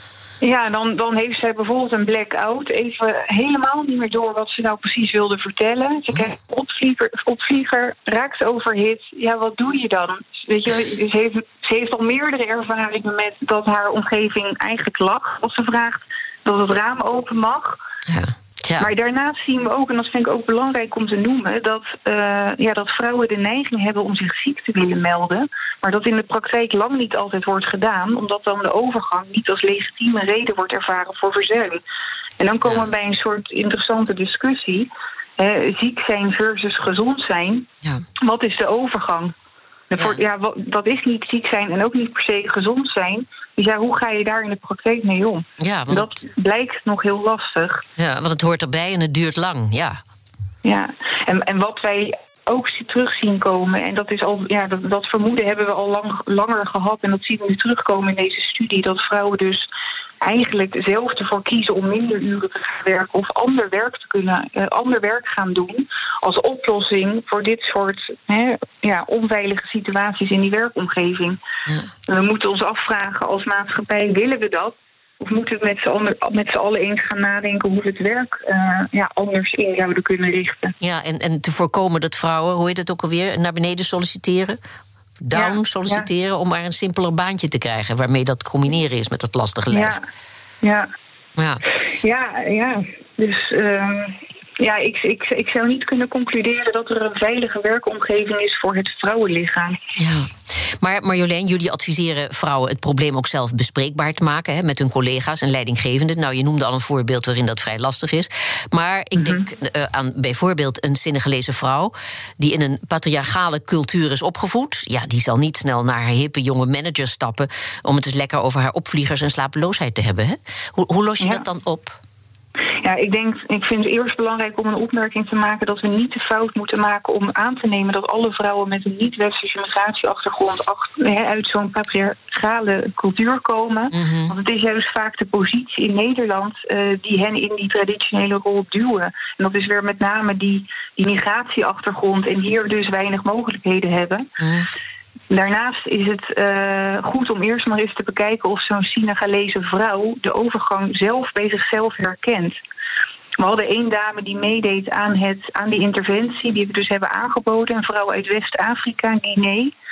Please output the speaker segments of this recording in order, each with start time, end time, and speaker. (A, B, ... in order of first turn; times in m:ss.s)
0:00.4-0:17.8 A
0:18.1-0:18.9 B
0:18.8-0:31.8 A
0:32.4-0:37.7 A
0:32.6-0:32.9 B
0:38.2-0:39.3 A
0:39.9-0:47.8 A
0:45.6-0:46.1 B
0:48.0-0:50.0 B
0:50.6-0:59.7 A
1:00.2-1:11.4 A
1:12.1-1:20.7 A
1:20.8-1:24.6 B
1:25.2-1:30.0 B
1:25.3-1:26.1 A
1:29.7-1:30.0 A
1:30.6-1:30.9 A
1:31.4-1:31.6 B
1:31.8-1:39.8 A
1:40.0-2:02.0 B
1:49.2-1:49.5 A
2:02.8-2:24.3 A
2:13.9-2:14.3 B
2:24.4-2:24.7 B
2:25.3-2:32.6 A
2:33.4-2:39.7 A